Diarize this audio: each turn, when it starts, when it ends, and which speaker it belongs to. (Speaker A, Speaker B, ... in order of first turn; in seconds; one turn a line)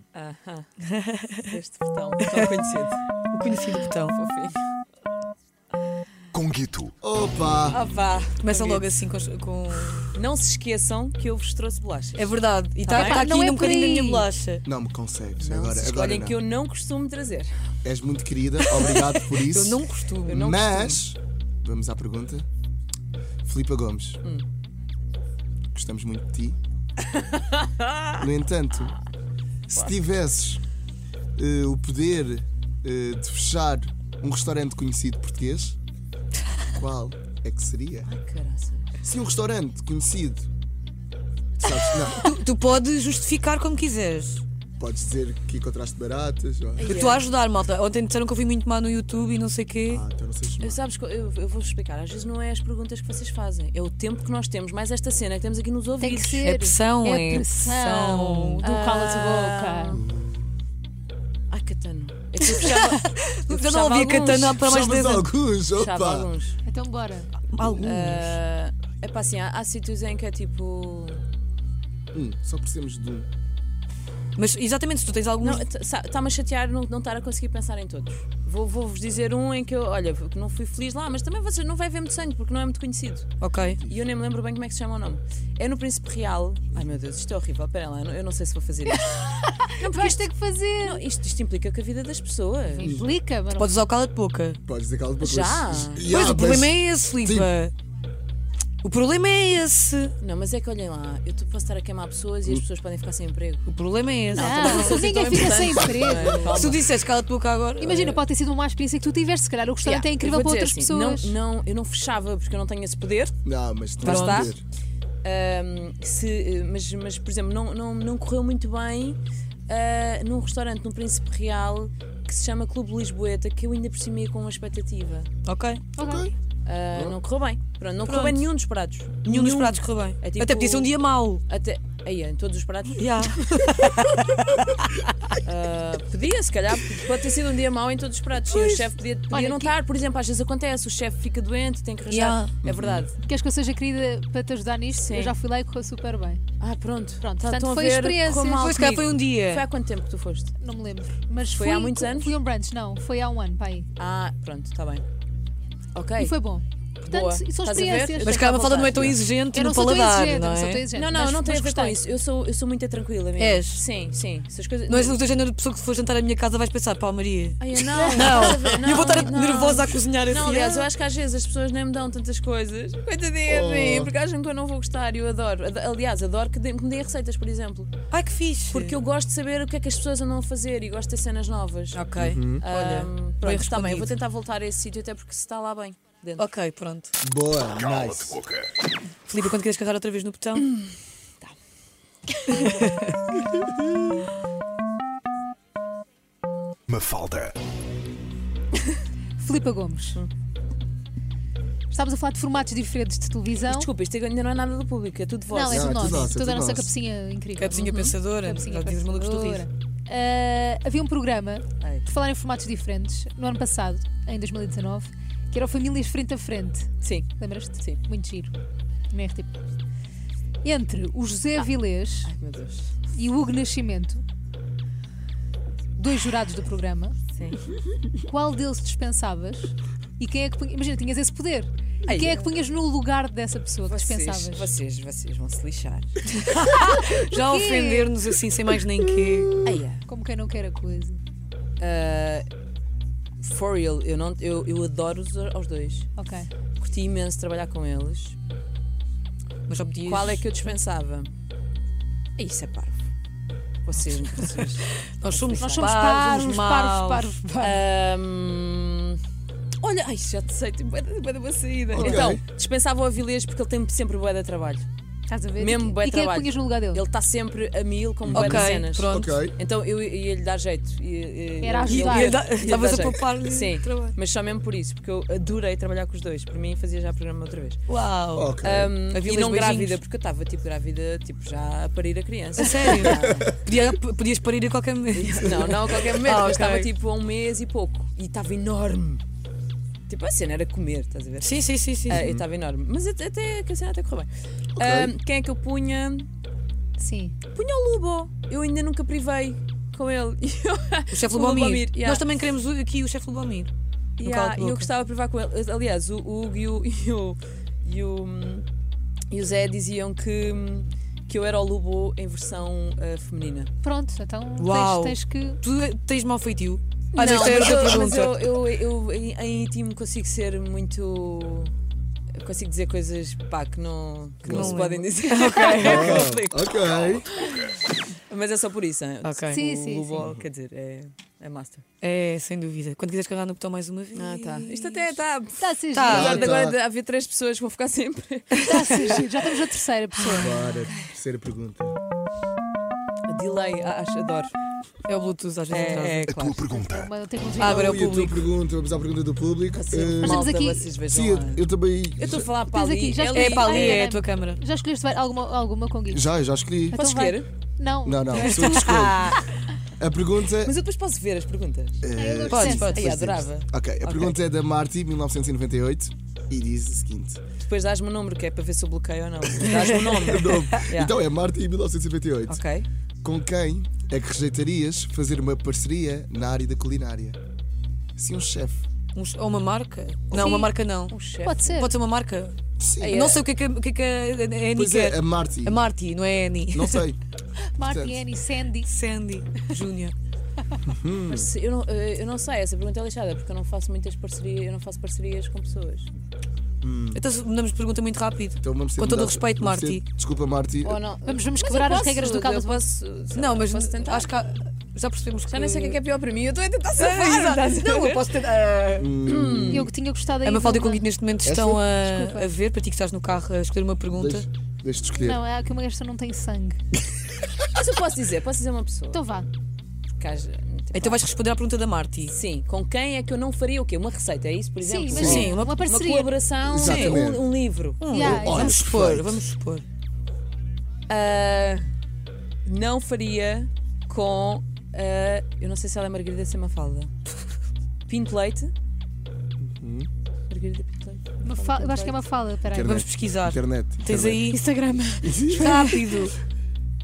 Speaker A: 0.1-0.7
Speaker B: 0.9-1.5
Speaker A: 1.5-3.0
Speaker B: 3.3-4.2
Speaker A: 4.0-4.6
Speaker C: 6.3-6.9
Speaker D: 7.0-7.8
Speaker A: 7.7-8.9
Speaker B: 8.4-10.2
Speaker A: 10.1-13.3
Speaker B: 12.2-14.7
Speaker E: 12.9-14.3
Speaker D: 14.7-16.4
Speaker A: 15.4-17.5
Speaker D: 17.8-22.5
Speaker B: 19.3-20.5
Speaker A: 20.3-21.0
Speaker D: 23.4-24.2
Speaker D: 25.7-26.6
Speaker A: 27.2-28.2
Speaker D: 28.2-28.9
Speaker D: 29.7-30.6
Speaker D: 31.4-35.8
Speaker D: 36.7-38.1
Speaker A: 38.1-39.0
Speaker D: 39.0-40.5
Speaker D: 41.6-42.3
Speaker B: 41.9-44.4
Speaker D: 44.8-47.0
Speaker B: 46.8-50.0
Speaker E: 46.8-47.2
Speaker A: 46.9-47.2
Speaker D: 49.9-50.8
Speaker A: 50.6-56.6
Speaker E: 56.0-60.0
Speaker B: 56.4-58.6
Speaker A: 58.6-60.0
Speaker D: 59.9-60.5
Speaker A: 61.5-64.6
Speaker B: 62.4-65.3
Speaker D: 64.6-66.3
Speaker A: 65.8-66.6
Speaker E: 66.7-67.3
Speaker B: 67.5-68.2
Speaker A: 67.8-71.2
Speaker D: 72.1-73.3
Speaker B: 74.4-75.7
Speaker A: 75.4-83.3
Speaker B: 83.4-83.8
Speaker A: 83.9-89.2
Speaker E: 89.0-91.0
Speaker A: 89.8-92.9
Speaker E: 92.7-93.7
Speaker B: 93.5-94.6
Speaker D: 94.7-97.5
Speaker A: 95.2-96.1
Speaker B: 96.0-97.7
Speaker B: 98.8-100.1
Speaker A: 100.2-103.7
Speaker B: 103.7-105.6
Speaker A: 104.3-106.9
Speaker E: 104.3-106.6
Speaker B: 106.3-108.0
Speaker E: 107.8-111.4
Speaker A: 107.8-108.2
Speaker A: 109.8-113.4
Speaker D: 113.5-114.6
Speaker A: 114.0-114.6
Speaker B: 114.0-114.5
Speaker A: 115.2-125.3
Speaker B: 125.5-125.8
Speaker E: 126.0-126.2
Speaker D: 126.0-126.3
Speaker A: 126.7-130.9
Speaker B: 128.1-128.4
Speaker B: 129.2-131.4
Speaker A: 131.5-133.3
Speaker B: 132.9-135.1
Speaker A: 135.4-143.2
Speaker B: 138.6-138.8
Speaker E: 139.3-139.7
Speaker B: 142.1-142.5
Speaker D: 142.6-143.1
Speaker E: 143.2-146.4
Speaker A: 144.9-145.4
Speaker A: 146.6-150.5
Speaker E: 147.2-148.7
Speaker B: 148.5-149.6
Speaker E: 150.6-153.9
Speaker A: 151.5-152.3
Speaker A: 154.0-155.1
Speaker A: 155.9-156.4
Speaker E: 156.2-162.0
Speaker A: 157.0-159.1
Speaker B: 158.2-160.8
Speaker A: 160.9-165.2
Speaker B: 163.4-163.8
Speaker B: 164.9-170.9
Speaker A: 167.6-177.9
Speaker E: 167.8-169.3
Speaker D: 173.5-174.1
Speaker B: 178.1-179.0
Speaker A: 178.7-182.0
Speaker B: 181.9-184.1
Speaker D: 182.2-182.6
Speaker A: 182.6-186.5
Speaker B: 186.4-187.1
Speaker D: 187.2-188.4
Speaker C: 187.8-188.7
Speaker B: 189.3-190.7
Speaker A: 192.4-192.8
Speaker B: 192.6-193.1
Speaker C: 196.9-197.6
Speaker E: 199.4-200.2
Speaker E: 201.9-203.9
Speaker A: 203.6-206.2
Speaker E: 205.5-218.5
Speaker D: 205.7-206.9
Speaker B: 207.6-209.7
Speaker A: 207.7-208.2
Speaker A: 211.8-212.1
Speaker A: 217.0-218.0
Speaker E: 219.1-219.5
Speaker E: 220.6-222.3
Speaker A: 222.2-223.1
Speaker E: 223.1-224.2
Speaker E: 226.0-227.2
Speaker A: 227.3-227.6
Speaker E: 228.2-234.7
Speaker A: 232.1-232.5
Speaker A: 233.8-236.2
Speaker B: 236.3-239.6
Speaker E: 237.4-238.1
Speaker A: 239.6-240.1
Speaker E: 240.0-241.2
Speaker A: 241.8-242.5
Speaker A: 243.4-246.1
Speaker E: 246.2-246.5
Speaker A: 246.8-248.4
Speaker B: 249.7-250.5
Speaker A: 250.1-251.3
Speaker A: 252.4-253.1
Speaker A: 253.8-256.0
Speaker B: 255.1-257.3
Speaker E: 255.6-257.8
Speaker A: 257.6-259.2
Speaker A: 259.8-264.9
Speaker D: 261.9-262.4
Speaker E: 262.0-262.3
Speaker E: 265.3-267.1
Speaker A: 265.6-277.8
Speaker D: 268.3-269.6
Speaker B: 268.3-269.4
Speaker E: 271.6-272.5
Speaker B: 271.9-274.2
Speaker B: 277.9-278.5
Speaker D: 278.4-278.9
Speaker A: 278.6-283.6
Speaker B: 279.1-280.0
Speaker B: 282.6-286.9
Speaker A: 285.1-289.2
Speaker A: 290.1-296.3
Speaker B: 291.4-292.2
Speaker D: 292.1-292.4
Speaker D: 294.8-295.1
Speaker E: 297.0-297.4
Speaker A: 297.5-302.4
Speaker B: 301.1-304.9
Speaker A: 304.2-308.7
Speaker A: 309.3-313.7
Speaker E: 313.8-315.6
Speaker B: 314.6-318.4
Speaker A: 317.1-321.7
Speaker A: 322.4-326.7
Speaker D: 324.4-324.8
Speaker B: 324.5-326.3
Speaker D: 325.8-327.3
Speaker A: 327.3-327.7
Speaker A: 328.3-331.9
Speaker B: 329.2-329.6
Speaker E: 329.5-330.2
Speaker B: 332.0-335.2
Speaker A: 334.1-339.5
Speaker E: 335.6-336.5
Speaker B: 335.9-336.5
Speaker D: 336.1-336.8
Speaker B: 338.6-339.0
Speaker E: 338.6-340.7
Speaker D: 340.4-342.0
Speaker A: 343.3-344.5
Speaker B: 345.1-346.3
Speaker A: 345.7-346.8
Speaker C: 346.3-347.1
Speaker E: 346.8-347.8
Speaker D: 347.6-350.6
Speaker B: 347.6-348.5
Speaker A: 349.7-351.6
Speaker E: 350.2-350.9
Speaker D: 351.1-352.5
Speaker A: 352.2-354.1
Speaker E: 352.7-356.3
Speaker B: 353.3-354.6
Speaker D: 356.1-357.0
Speaker E: 356.9-358.9
Speaker A: 356.9-357.5
Speaker D: 358.1-359.3
Speaker B: 358.3-359.3
Speaker A: 358.9-359.4
Speaker D: 360.0-360.7
Speaker A: 360.6-364.4
Speaker D: 362.0-367.4
Speaker E: 362.2-363.0
Speaker B: 362.5-363.0
Speaker A: 367.6-371.2
Speaker D: 370.2-372.6
Speaker A: 372.5-372.9
Speaker D: 373.2-377.4
Speaker D: 378.2-378.8
Speaker B: 379.1-381.1
Speaker A: 380.3-381.9
Speaker E: 380.3-380.7
Speaker E: 381.4-381.9
Speaker B: 381.7-387.1
Speaker D: 382.8-383.3
Speaker A: 383.0-383.4
Speaker D: 384.8-385.9
Speaker D: 386.7-387.2
Speaker E: 387.7-388.9
Speaker D: 387.8-388.2
Speaker B: 388.8-390.1
Speaker D: 390.8-391.5
Speaker A: 391.3-396.1
Speaker D: 396.8-397.2
Speaker B: 397.1-400.0
Speaker D: 398.6-401.0
Speaker A: 400.8-404.3
Speaker E: 401.3-402.9
Speaker B: 403.4-406.0
Speaker A: 405.5-408.3
Speaker B: 407.0-409.1
Speaker D: 409.0-409.9
Speaker A: 409.2-409.9
Speaker E: 409.7-411.1
Speaker B: 410.4-414.5
Speaker D: 411.4-411.8
Speaker E: 412.0-412.5
Speaker D: 414.2-415.4
Speaker E: 415.1-416.8
Speaker A: 417.8-419.2
Speaker E: 419.1-419.5
Speaker A: 420.2-421.2
Speaker B: 420.9-422.4
Speaker A: 422.3-428.1
Speaker E: 424.8-426.3
Speaker B: 425.1-425.9
Speaker D: 425.2-425.5
Speaker D: 426.6-427.5
Speaker B: 426.8-427.2
Speaker B: 428.0-429.9
Speaker E: 428.1-428.8
Speaker D: 428.1-429.4
Speaker A: 431.1-431.9
Speaker A: 432.7-437.1
Speaker A: 438.1-438.7
Speaker D: 439.6-440.1
Speaker A: 440.5-442.2
Speaker E: 441.4-443.0
Speaker D: 442.7-444.6
Speaker B: 442.8-444.6
Speaker E: 444.5-445.8
Speaker D: 445.2-446.1
Speaker B: 445.4-446.4